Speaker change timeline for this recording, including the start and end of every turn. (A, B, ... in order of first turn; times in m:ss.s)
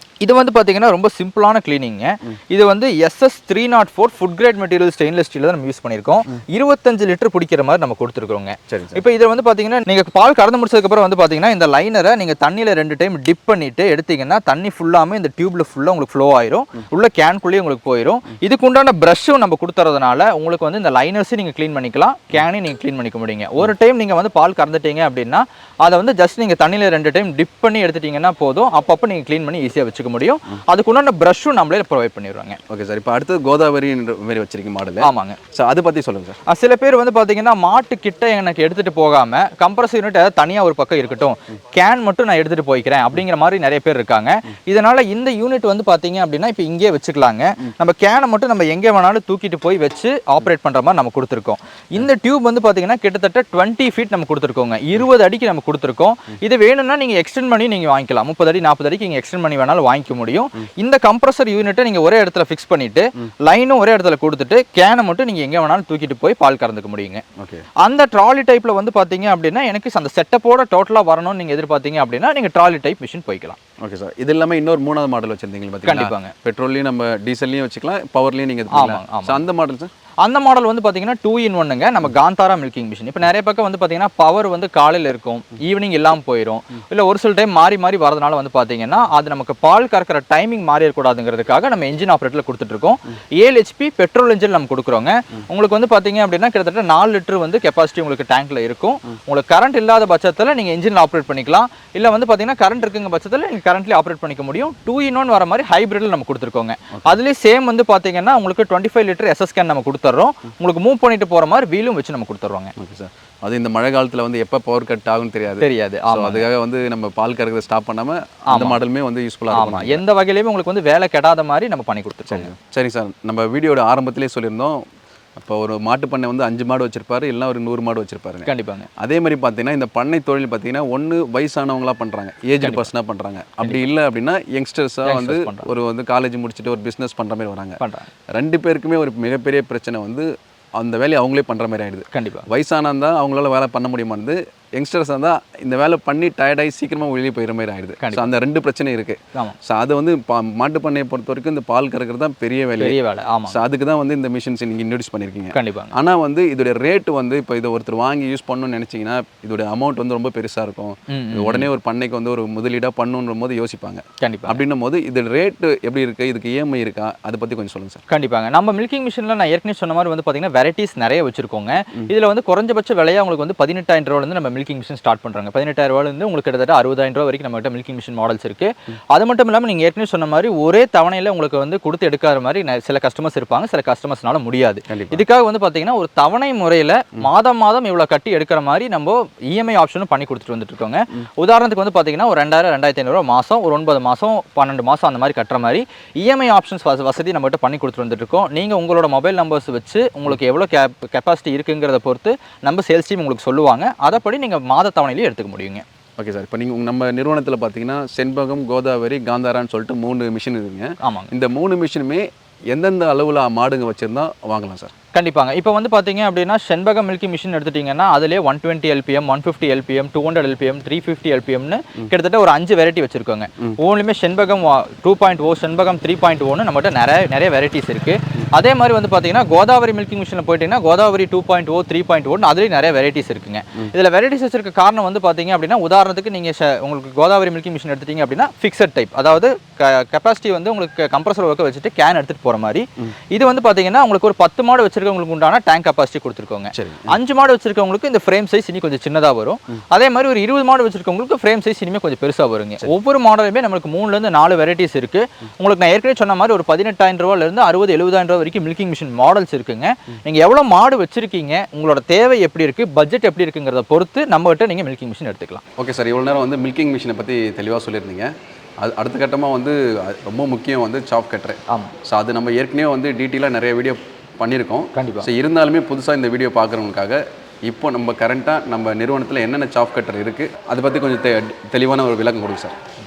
0:00.2-0:32.6 A
0:08.7-0:09.0 B
0:32.7-0:36.4 B
0:35.0-0:35.4 A
0:36.5-1:07.2 A
1:07.4-1:07.6 B
1:07.8-1:13.6 A
1:13.8-1:19.9 B
1:15.8-1:16.3 A
1:18.7-1:19.4 A
1:20.2-1:52.7 A
1:52.8-2:00.0 B
1:55.6-1:56.4 A
1:58.5-1:58.8 A
1:59.5-2:02.5 A
2:02.3-2:04.8 B
2:05.4-2:17.8 B
2:08.4-2:08.9 A
2:12.6-2:12.9 A
2:13.6-2:13.9 A
2:15.0-2:15.7 A
2:17.8-2:18.1 A
2:18.4-2:48.0 B
2:22.1-2:22.5 A
2:28.0-2:28.3 A
2:32.8-2:33.6 A
2:35.5-2:35.9 A
2:41.1-2:41.7 A
2:44.2-2:44.6 A
2:48.1-3:25.8 A
3:04.9-3:05.2 B
3:26.2-3:34.9 B
3:31.0-3:31.3 A
3:35.1-4:25.6 A
4:06.8-4:07.2 B
4:25.8-4:42.8 B
4:34.9-4:35.3 A